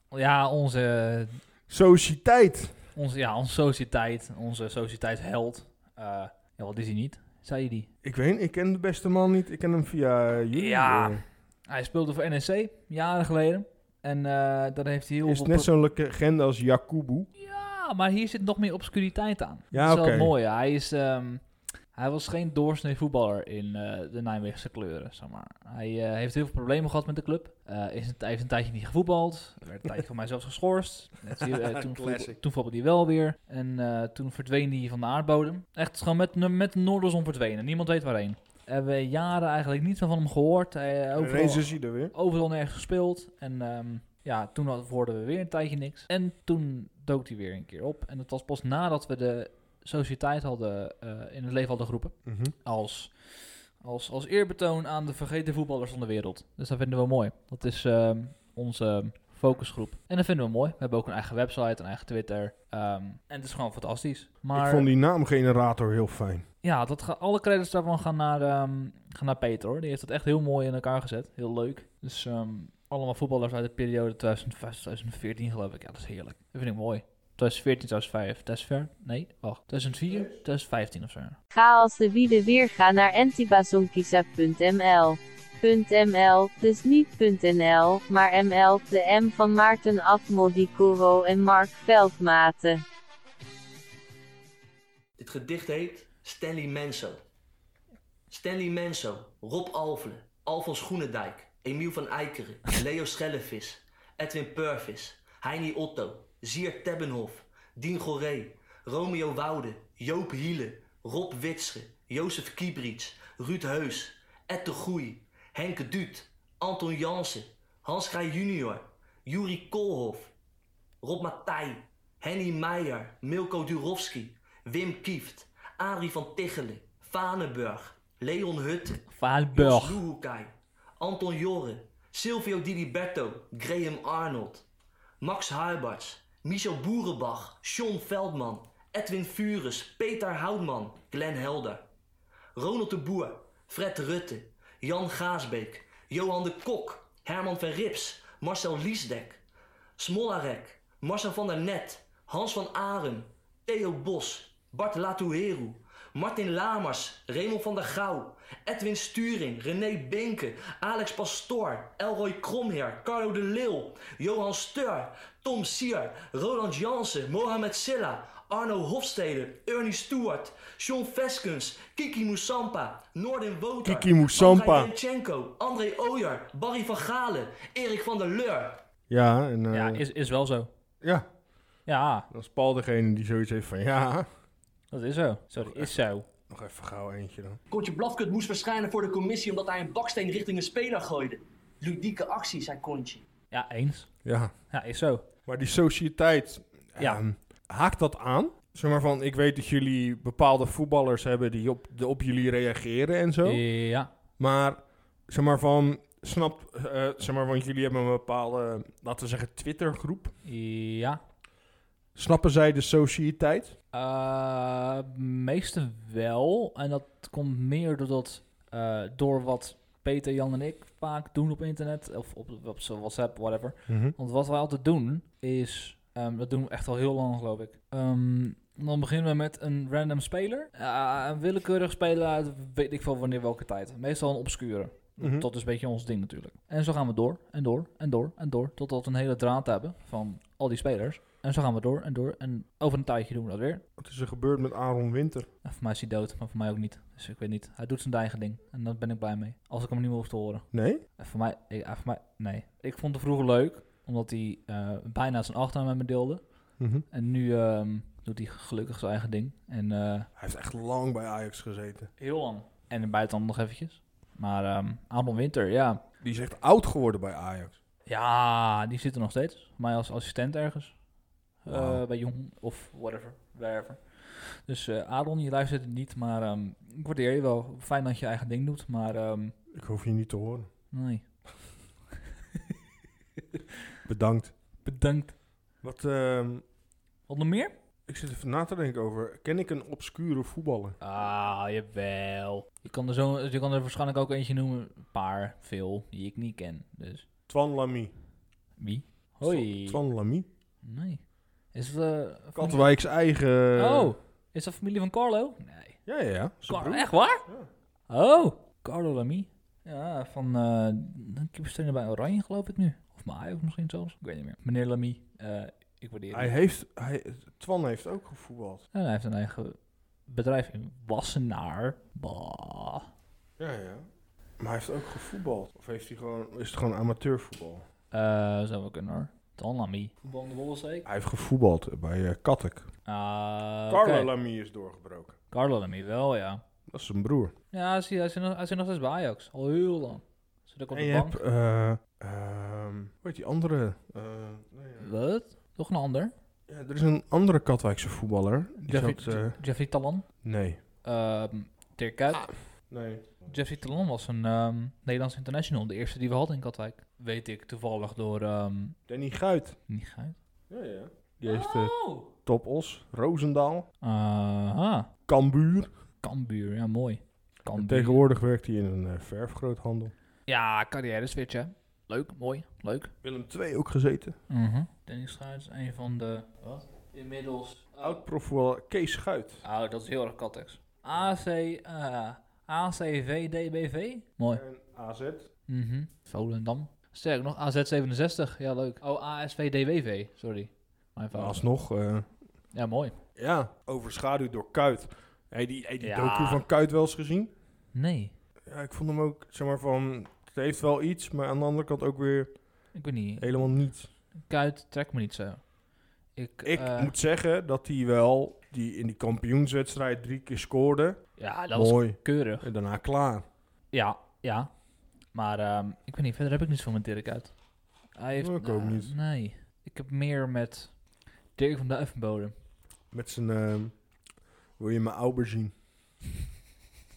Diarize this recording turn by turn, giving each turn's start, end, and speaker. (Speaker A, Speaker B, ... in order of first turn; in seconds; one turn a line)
Speaker A: 0.1-1.4
Speaker B: 1.7-2.8
Speaker A: 3.0-7.9
Speaker B: 8.0-11.2
Speaker A: 10.5-15.7
Speaker B: 15.2-17.3
Speaker A: 17.4-64.9
Speaker B: 19.7-20.3
Speaker B: 31.4-32.4
Speaker B: 41.2-42.1
Speaker B: 52.3-52.5
Speaker B: 64.5-66.5
Speaker A: 66.6-81.4
Speaker B: 80.1-80.4
Speaker C: 81.5-92.8
Speaker D: 95.2-97.2
Speaker D: 98.3-120.3
Speaker D: 121.0-134.7
Speaker A: 129.1-130.0
Speaker D: 135.2-141.9
Speaker D: 142.6-149.4
Speaker D: 150.0-178.8
Speaker B: 173.8-174.9
Speaker B: 179.1-180.0
Speaker A: 179.7-180.7
Speaker A: 181.9-182.3
Speaker B: 182.3-184.3
Speaker A: 184.9-186.3
Speaker B: 185.6-185.9
Speaker B: 186.5-187.6
Speaker D: 187.7-193.3
Speaker A: 193.5-195.3
Speaker B: 194.2-194.6
Speaker B: 195.4-203.6
Speaker A: 197.0-197.2
Speaker A: 203.4-204.1
Speaker B: 204.4-210.3
Speaker A: 210.4-211.2
Speaker B: 212.2-213.8
Speaker A: 213.9-243.8
Speaker B: 223.9-224.2
Speaker B: 235.2-235.5
Speaker B: 244.0-245.5
Speaker A: 245.6-260.3
Speaker B: 250.7-251.0
Speaker B: 256.8-257.1
Speaker B: 260.4-262.1
Speaker A: 262.2-266.0
Speaker B: 266.2-267.8
Speaker A: 268.1-270.9
Speaker A: 271.6-279.6
Speaker B: 271.7-272.0
Speaker B: 279.7-280.7
Speaker A: 280.9-281.3
Speaker B: 284.1-284.5
Speaker A: 284.8-285.4
Speaker B: 285.8-286.6
Speaker A: 287.3-287.7
Speaker B: 288.1-291.0
Speaker A: 291.0-297.3
Speaker B: 297.5-298.1
Speaker A: 298.8-300.0
Speaker B: 299.4-300.5
Speaker A: 300.8-302.9
Speaker B: 302.6-304.1
Speaker A: 303.7-306.0
Speaker B: 306.1-307.7
Speaker A: 306.7-307.4
Speaker A: 308.1-316.5
Speaker B: 316.3-318.8
Speaker A: 318.9-323.1
Speaker B: 323.6-324.1
Speaker B: 324.6-327.9
Speaker A: 328.1-331.1
Speaker B: 331.1-332.9
Speaker A: 333.1-334.3
Speaker B: 333.9-335.4
Speaker A: 335.5-336.6
Speaker B: 336.9-337.5
Speaker A: 337.7-341.4
Speaker B: 340.9-345.1
Speaker A: 345.0-346.3
Speaker B: 346.7-349.6
Speaker A: 348.8-350.3
Speaker B: 350.4-350.8
Speaker A: 351.0-352.6
Speaker B: 352.9-353.6
Speaker A: 353.5-359.0
Speaker B: 359.1-359.8
Speaker A: 359.9-360.4
Speaker B: 360.7-363.9
Speaker A: 361.4-362.3
Speaker A: 364.0-365.1
Speaker B: 365.3-365.9
Speaker A: 366.2-368.2
Speaker B: 367.8-370.1
Speaker A: 370.5-373.1
Speaker B: 373.2-374.4
Speaker A: 374.5-378.2
Speaker B: 378.0-379.7
Speaker A: 379.6-384.6
Speaker B: 384.5-385.5
Speaker A: 385.7-391.6
Speaker B: 391.3-392.3
Speaker A: 392.7-393.2
Speaker B: 393.4-397.5
Speaker A: 396.0-396.6
Speaker A: 397.9-398.4
Speaker B: 398.7-402.7
Speaker A: 402.9-403.5
Speaker B: 403.4-404.1
Speaker A: 404.4-405.7
Speaker A: 406.4-407.1
Speaker B: 406.6-413.4
Speaker A: 411.4-412.7
Speaker A: 413.9-414.7
Speaker A: 415.3-417.6
Speaker A: 418.1-421.0
Speaker B: 418.4-419.1
Speaker A: 421.6-422.5
Speaker B: 423.1-424.1
Speaker B: 424.8-425.7